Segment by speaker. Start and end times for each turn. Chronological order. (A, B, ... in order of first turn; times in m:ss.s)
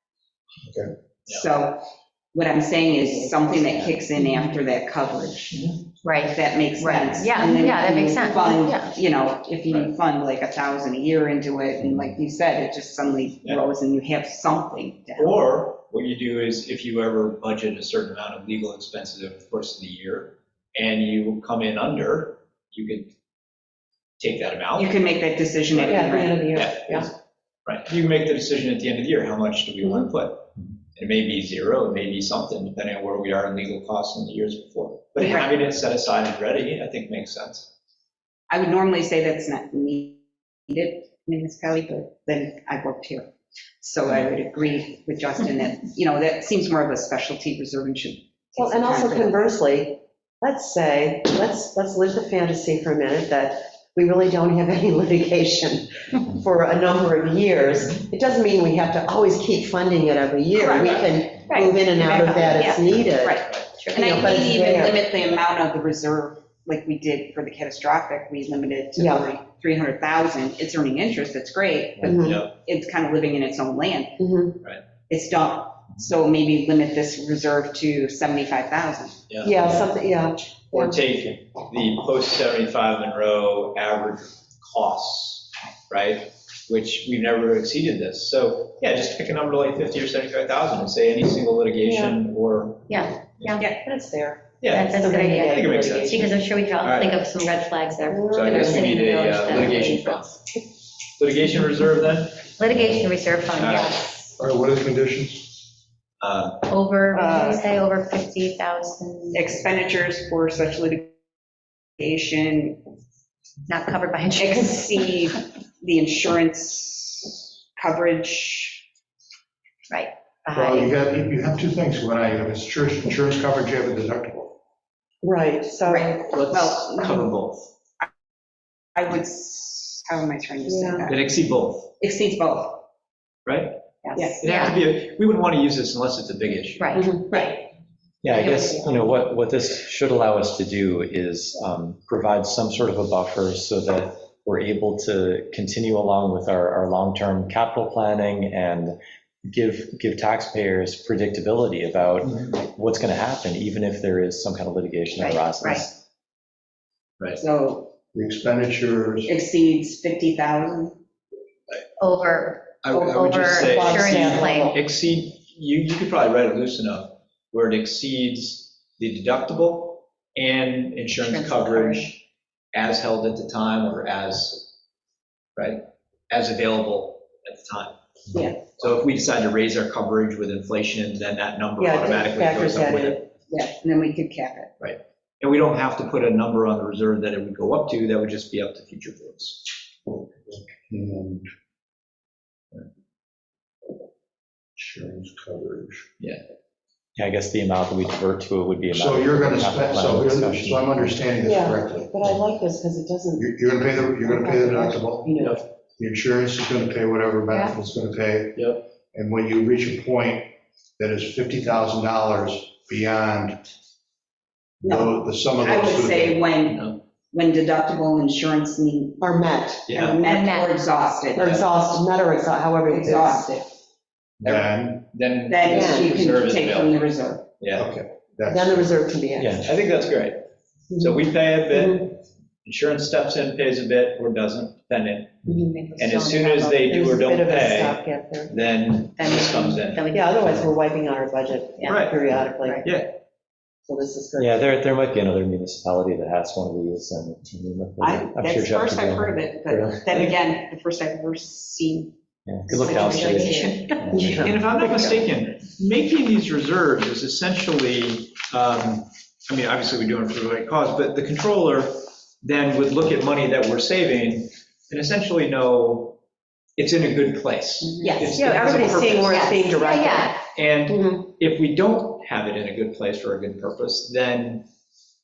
0:00.6-0:00.9 A
0:01.3-0:01.8 B
0:02.3-0:05.5 B
0:03.2-0:03.5 C
0:05.5-0:05.8 D
0:06.0-0:09.0 E
0:06.3-0:15.4 B
0:15.2-0:23.1 D
0:24.2-0:24.9 D
0:24.8-0:26.6 B
0:25.7-0:27.1 D
0:25.9-0:27.1 C
0:27.6-0:37.7 D
0:35.2-0:35.5 B
0:38.5-0:43.3 B
0:43.8-0:49.4 B
0:48.6-1:05.0 C
1:00.5-1:01.1 B
1:01.4-1:02.8 E
1:02.6-1:14.2 B
1:03.1-1:03.7 D
1:03.8-1:04.1 E
1:09.0-1:09.3 C
1:12.0-1:12.4 C
1:12.1-1:12.5 D
1:14.2-1:14.6 C
1:15.1-1:19.2 B
1:19.3-1:19.8 D
1:19.4-1:21.0 C
1:20.7-1:33.6 D
1:31.8-1:32.2 C
1:32.9-1:33.7 E
1:33.7-1:36.3 C
1:34.6-1:37.4 D
1:34.7-1:40.3 E
1:38.1-1:39.0 C
1:38.3-1:40.4 D
1:41.2-1:44.1 D
1:42.6-1:44.3 E
1:44.4-1:45.6 A
1:46.2-1:46.7 D
1:46.7-1:49.6 E
1:47.2-1:47.6 C
1:49.3-1:51.2 B
1:52.0-1:52.8 B
1:53.7-1:55.0 E
1:54.4-1:58.8 B
1:59.9-2:00.9 E
2:00.6-2:04.5 A
2:05.2-2:06.4 C
2:05.9-2:07.3 B
2:06.3-2:07.7 D
2:09.0-2:11.3 B
2:10.7-2:11.1 C
2:11.1-2:11.9 D
2:12.0-2:12.8 B
2:13.4-2:13.8 D
2:14.0-2:14.8 E
2:14.1-2:14.4 B
2:14.4-2:16.9 D
2:16.8-2:17.5 E
2:16.9-2:17.5 C
2:18.2-2:36.0 F
2:32.2-2:32.6 D
2:35.2-2:35.8 B
2:37.4-2:37.9 B
2:38.1-2:39.3 A
2:39.2-2:41.0 B
2:42.0-2:44.7 E
2:42.8-2:54.7 D
2:42.9-2:44.8 C
2:51.1-2:52.1 E
2:55.6-2:58.0 D
2:58.3-2:58.6 B
2:58.6-3:03.3 D
3:01.8-3:03.2 C
3:03.5-3:04.7 B
3:04.8-3:09.7 D
3:10.0-3:11.5 A
3:14.8-3:16.1 A
3:17.2-3:21.1 F
3:18.9-3:22.1 A
3:21.4-3:25.6 C
3:23.4-3:25.4 A
3:25.4-3:25.6 D
3:26.0-3:33.6 A
3:27.5-3:27.7 E
3:28.5-3:28.8 D
3:34.8-3:36.5 A
3:34.8-3:39.2 B
3:36.7-3:37.0 D
3:39.2-3:40.5 C
3:39.9-3:40.2 D
3:40.2-3:42.0 B
3:40.2-3:40.8 E
3:41.3-3:43.5 C
3:42.8-3:43.7 B
3:44.4-3:45.0 A
3:44.4-3:47.0 D
3:45.5-3:47.5 B
3:45.7-3:46.1 C
3:47.6-3:47.9 D
3:47.7-3:48.9 A
3:48.5-3:49.7 C
3:49.4-3:49.7 F
3:49.6-3:50.4 D
3:50.9-3:52.1 C
3:50.9-3:55.4 D
3:55.5-3:55.7 C
3:55.7-3:56.9 E
3:56.0-4:00.1 D
3:56.8-3:58.6 C
3:59.1-4:00.7 E
4:00.1-4:02.8 C
4:01.8-4:02.0 E
4:01.8-4:03.2 D
4:02.6-4:02.8 E
4:03.8-4:04.6 C
4:04.4-4:10.0 F
4:08.0-4:12.1 B
4:10.1-4:10.4 D
4:12.4-4:14.6 F
4:12.7-4:14.0 B
4:14.1-4:15.2 C
4:14.2-4:26.2 D
4:26.8-4:29.6 D
4:27.9-4:28.2 E
4:28.0-4:29.4 B
4:28.0-4:30.3 C
4:29.3-4:30.4 E
4:30.6-4:34.6 D
4:30.9-4:31.2 C